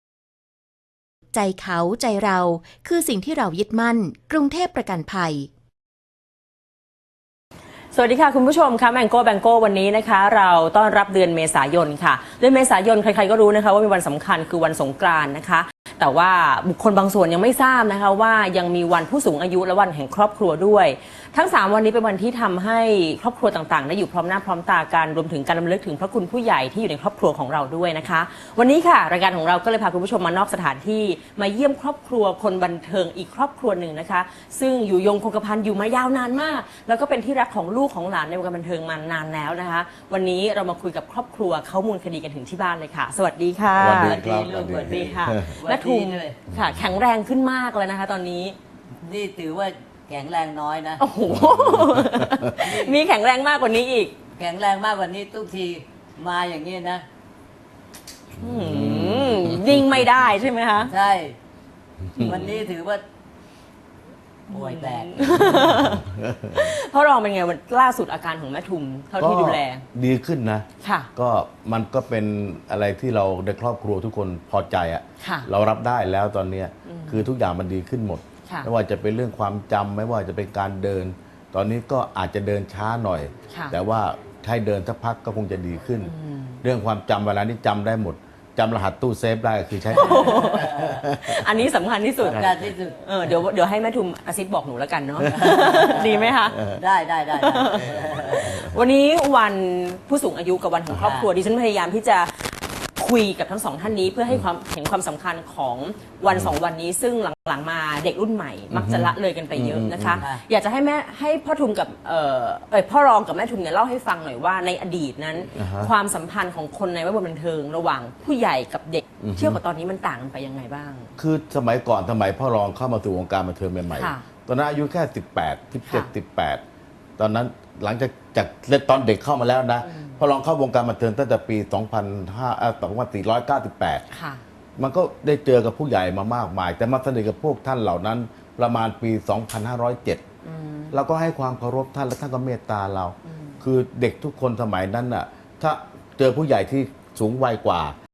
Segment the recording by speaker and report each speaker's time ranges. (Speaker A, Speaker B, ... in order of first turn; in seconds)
Speaker A: 1.3-5.5
Speaker B: 7.9-48.6, 51.0-54.1, 58.4-60.9, 62.2-62.6, 64.5-69.8, 70.8-71.1, 75.2-75.5, 76.8-77.3, 83.5-83.8, 86.0-86.6, 89.9-96.6, 97.4-121.2, 123.9-124.3, 129.8-130.2, 134.1-134.4, 140.4-141.0, 143.2-143.6
Speaker C: 43.7-45.5, 46.5-46.9, 51.3-52.5, 58.4-60.0, 62.1-62.4, 65.2-66.8, 69.2-91.6, 92.2-92.7, 95.2-96.8, 98.2-98.8, 100.9-101.1, 106.3-106.5, 108.7-110.2, 115.5-115.9, 119.2-119.6, 121.2-126.6, 127.2-134.0, 134.8-140.2, 140.9-147.9
Speaker D: 43.9-46.4, 49.0-51.0, 52.6-53.0, 54.3-57.0, 60.9-61.4, 62.2-63.0, 64.5-65.4, 90.0-91.0, 92.2-93.3, 95.3-98.7, 101.0-101.3